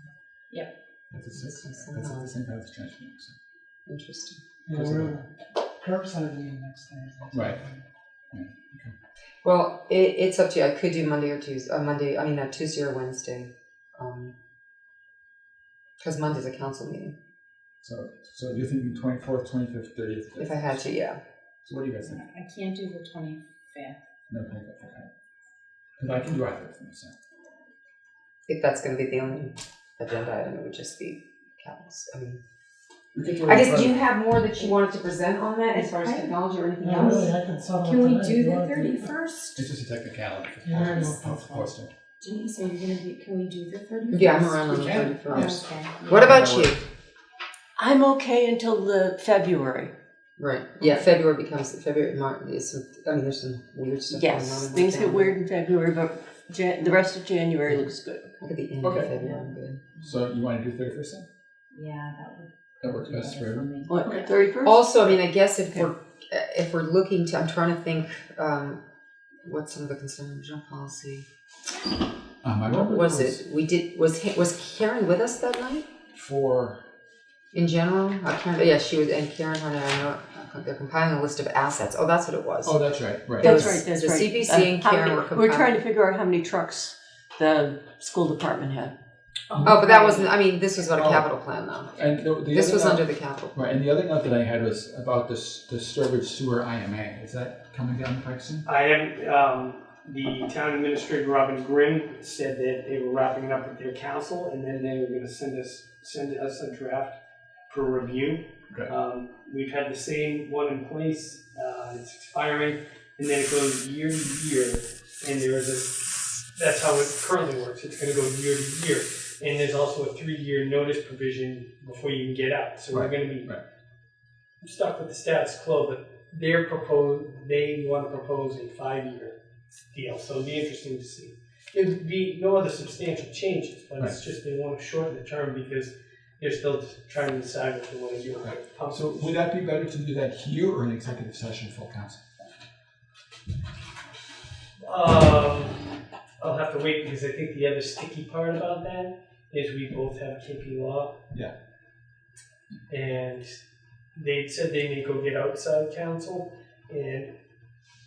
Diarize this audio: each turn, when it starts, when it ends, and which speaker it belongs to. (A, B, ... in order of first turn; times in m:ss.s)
0:01.1-0:03.3 A
0:01.4-0:02.3 B
0:03.9-0:04.4 B
0:04.7-0:05.2 C
0:04.7-0:05.2 A
0:05.8-0:07.8 C
0:07.3-0:07.6 A
0:08.3-0:08.9 A
0:09.4-0:14.3 B
0:16.0-0:17.1 B
0:17.8-0:20.9 A
0:20.4-0:21.2 B
0:21.7-0:22.2 A
0:22.0-0:24.0 D
0:24.3-0:25.1 A
0:26.0-0:27.1 A
0:28.5-0:32.4 B
0:33.1-0:34.0 A
0:33.4-0:37.3 B
0:35.7-0:36.4 D
0:36.8-0:39.1 C
0:36.9-0:39.6 D
0:39.6-0:41.9 A
0:40.6-0:41.7 C
0:40.9-0:41.1 D
0:42.2-0:46.4 D
0:44.1-0:46.8 B
0:44.7-0:46.8 A
0:47.8-0:49.9 E
0:50.4-0:55.4 B
0:54.1-0:58.3 E
0:58.4-0:59.8 B
0:58.8-0:59.1 A
0:59.1-1:00.2 D
1:00.0-1:01.2 A
1:01.7-1:04.3 D
1:02.8-1:03.7 A
1:03.8-1:05.2 E
1:04.6-1:08.8 B
1:09.4-1:11.2 B
1:12.4-1:13.4 A
1:12.7-1:15.9 B
1:16.1-1:16.8 A
1:17.5-1:22.8 B
1:22.6-1:23.8 A
1:23.4-1:28.9 E
1:23.4-1:25.8 B
1:29.5-1:30.2 D
1:29.5-1:29.8 A
1:29.6-1:33.8 B
1:30.9-1:31.3 A
1:31.9-1:38.6 A
1:38.6-1:47.2 F
1:47.7-2:03.5 F
2:02.9-2:03.6 A
2:04.6-2:09.4 F
2:09.9-2:19.4 F
2:18.4-2:22.2 A
2:24.8-2:31.2 F
2:32.9-2:33.6 F
2:34.1-2:37.3 F